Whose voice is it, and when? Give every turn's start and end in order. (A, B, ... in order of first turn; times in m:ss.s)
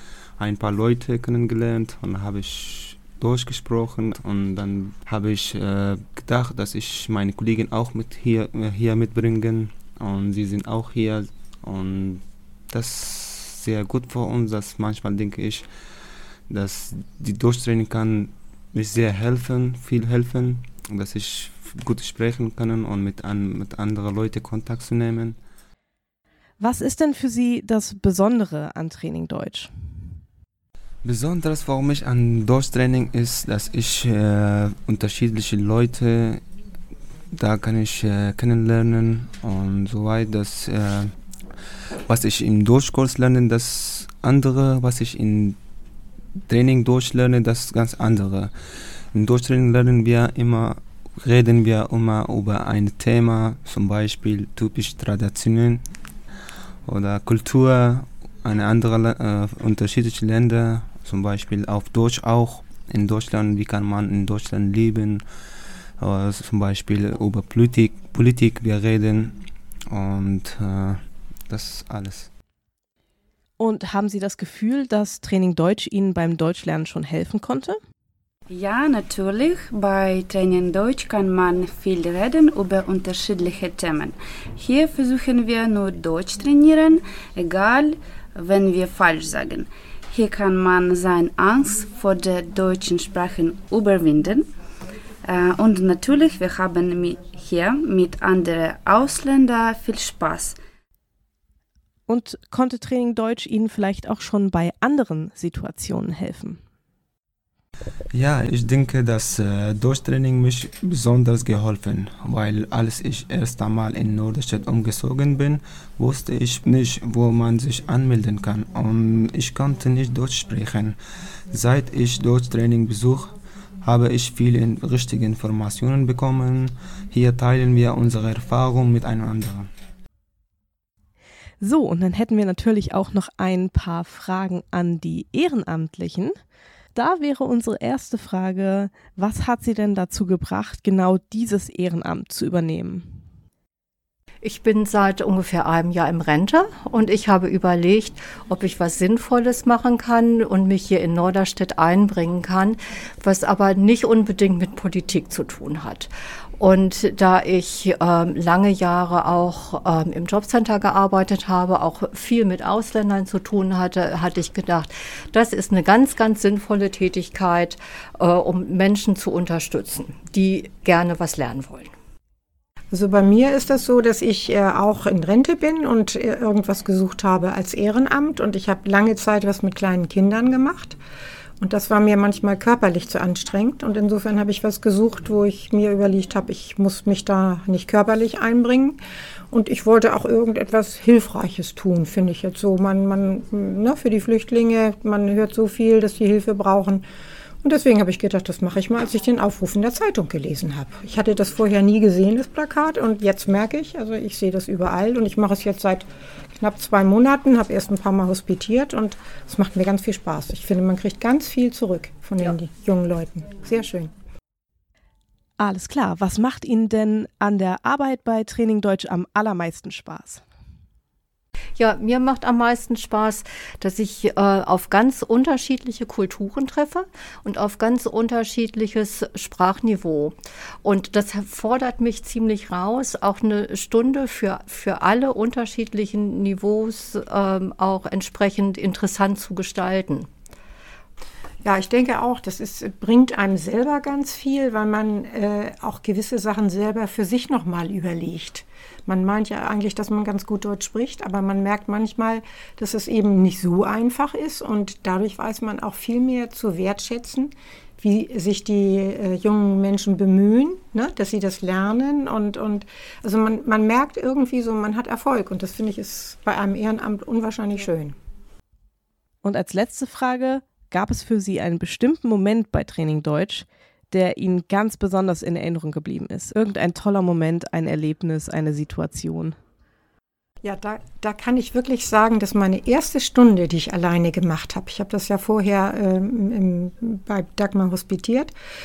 0:00.4-0:15.7 A
0:16.5-0:25.4 A
0:26.6-0:29.7 B
0:31.0-0:36.4 A
0:37.3-0:41.2 A
0:42.1-0:45.6 A
0:46.5-0:48.5 A
0:49.1-0:56.0 A
0:56.8-1:05.2 A
1:06.0-1:12.3 A
1:13.6-1:17.8 B
1:18.5-1:34.5 C
1:35.2-1:40.6 C
1:42.1-1:46.6 B
1:48.1-2:01.0 A
2:01.5-2:09.7 A
2:11.6-2:16.4 B
2:17.0-2:23.2 B
2:24.4-2:51.9 D
2:52.9-3:01.0 E
3:01.6-3:09.0 E
3:09.5-3:17.1 E
3:17.6-3:34.1 E
3:35.6-3:40.4 B
3:41.8-4:00.3 D
4:01.6-4:28.2 E
4:29.4-4:39.6 B
4:40.6-4:48.5 E